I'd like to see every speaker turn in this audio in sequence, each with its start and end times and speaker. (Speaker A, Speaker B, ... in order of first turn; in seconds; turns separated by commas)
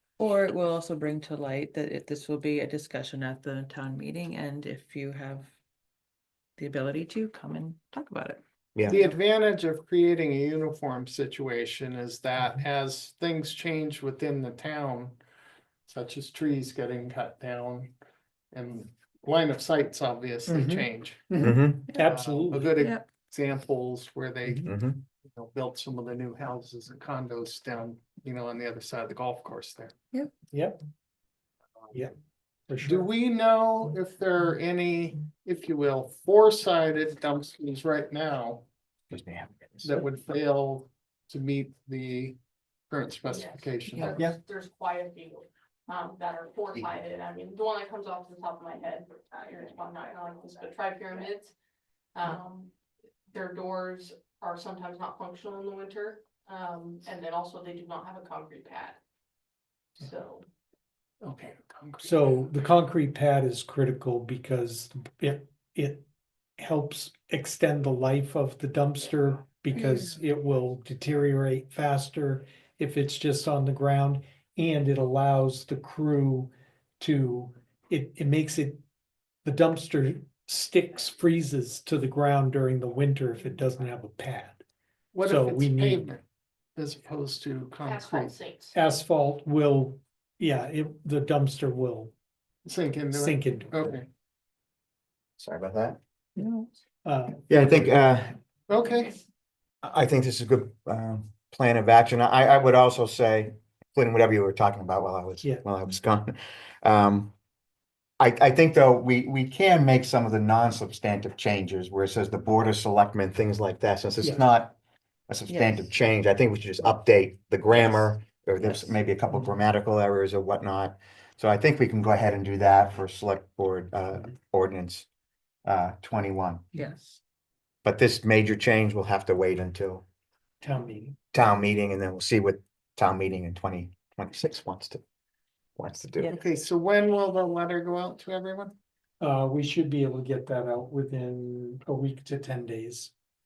Speaker A: 0.2-5.5, Speaker A: 6.6-8.4, Speaker B: 8.8-15.2, Speaker B: 15.9-17.9, Speaker B: 18.5-21.3, Speaker C: 20.5-22.8, Speaker D: 21.4-21.9, Speaker B: 22.0-24.7, Speaker A: 22.7-23.1, Speaker D: 24.6-25.0, Speaker B: 25.2-29.9, Speaker C: 30.5-30.8, Speaker C: 32.7-33.1, Speaker B: 32.8-38.6, Speaker D: 39.1-39.9, Speaker B: 39.8-42.4, Speaker B: 42.9-44.3, Speaker E: 43.3-51.5, Speaker E: 52.1-52.7, Speaker E: 53.3-59.0, Speaker E: 60.0-60.5, Speaker B: 61.2-62.2, Speaker C: 62.0-66.1, Speaker C: 66.6-78.8, Speaker C: 79.5-84.6, Speaker B: 85.1-86.2, Speaker C: 85.2-86.1, Speaker B: 86.8-88.3, Speaker E: 87.8-88.8, Speaker C: 88.7-92.1, Speaker B: 92.7-94.1, Speaker C: 93.1-94.0, Speaker D: 95.4-96.7, Speaker C: 97.0-97.6, Speaker D: 97.5-98.3, Speaker B: 98.7-99.2, Speaker D: 99.8-107.3, Speaker D: 108.2-114.8, Speaker C: 114.2-114.5, Speaker D: 115.3-125.1, Speaker A: 115.5-115.9, Speaker D: 125.7-126.7, Speaker A: 126.8-127.2, Speaker D: 127.8-130.1, Speaker C: 130.6-131.2, Speaker D: 131.3-135.0, Speaker D: 135.8-136.4, Speaker B: 136.3-138.8, Speaker C: 139.2-143.1